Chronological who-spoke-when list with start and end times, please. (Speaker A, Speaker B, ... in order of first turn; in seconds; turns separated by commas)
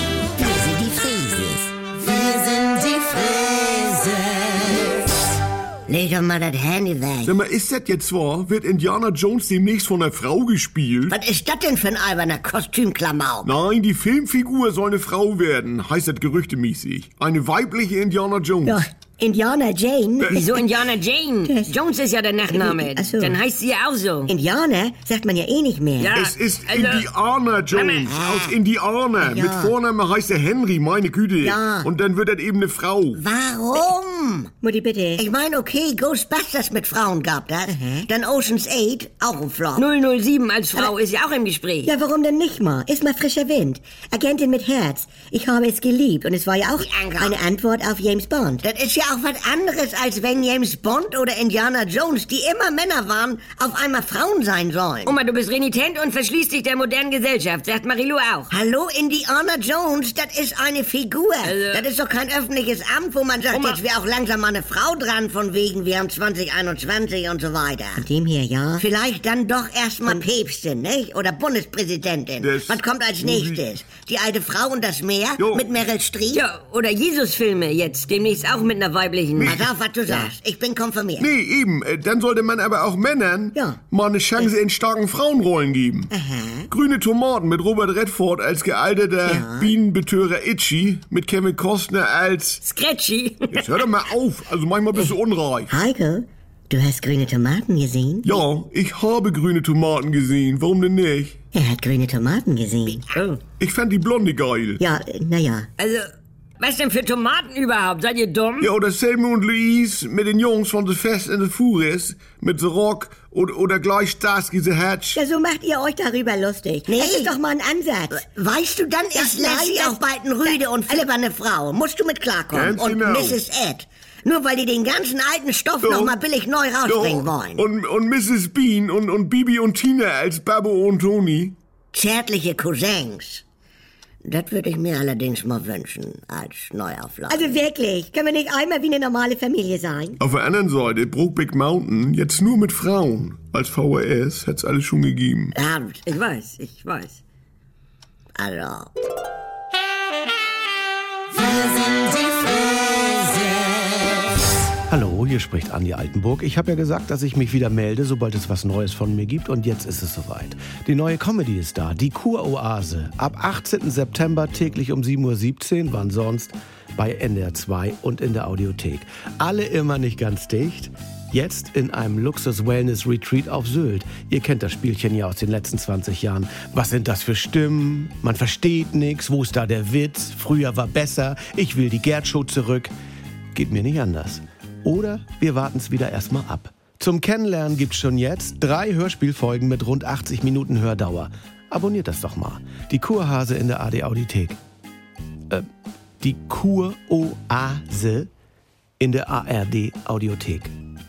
Speaker A: 0.4-1.7, Speaker A: 5.9-7.3, Speaker B: 7.2-11.2, Speaker A: 11.1-13.5, Speaker B: 13.4-18.8, Speaker C: 18.6-20.6, Speaker B: 20.2-20.5, Speaker D: 20.3-24.3, Speaker C: 21.4-21.8, Speaker C: 22.4-23.4, Speaker C: 24.3-26.1, Speaker D: 26.0-27.1, Speaker B: 26.1-33.2, Speaker D: 27.7-28.1, Speaker A: 28.1-28.6, Speaker C: 29.2-29.7, Speaker C: 31.4-31.9, Speaker A: 33.1-34.5, Speaker C: 34.6-35.2, Speaker A: 35.2-39.9, Speaker C: 37.7-38.0, Speaker D: 39.8-41.9, Speaker C: 41.8-48.6, Speaker A: 46.8-47.4, Speaker A: 48.6-55.2, Speaker D: 55.0-58.5, Speaker A: 58.5-68.0, Speaker D: 61.4-61.9, Speaker D: 63.5-63.8, Speaker C: 68.0-68.8, Speaker A: 68.8-76.4, Speaker B: 72.4-73.6, Speaker B: 75.4-75.7, Speaker D: 76.3-79.6, Speaker B: 79.3-79.7, Speaker A: 79.5-81.3, Speaker B: 81.2-86.1, Speaker C: 83.5-83.8, Speaker C: 86.1-86.6, Speaker B: 86.7-92.6, Speaker C: 89.2-89.7, Speaker D: 92.6-93.8, Speaker B: 93.5-95.7, Speaker C: 95.7-98.3, Speaker B: 98.2-101.4, Speaker C: 101.5-103.1, Speaker D: 103.1-103.4, Speaker B: 103.6-104.8, Speaker C: 104.8-105.7, Speaker D: 105.8-108.7, Speaker B: 108.6-115.2, Speaker C: 115.1-118.2, Speaker A: 116.9-117.3, Speaker A: 118.1-127.6, Speaker C: 119.1-121.0, Speaker B: 122.5-123.4, Speaker B: 125.8-126.1, Speaker B: 126.8-131.6, Speaker A: 131.9-133.4, Speaker A: 134.2-137.6, Speaker C: 137.3-140.2, Speaker B: 140.2-145.6, Speaker A: 145.5-146.0, Speaker D: 146.1-147.2, Speaker A: 148.4-148.9, Speaker E: 154.9-182.9, Speaker E: 183.5-194.6, Speaker E: 196.2-198.3, Speaker E: 199.0-200.7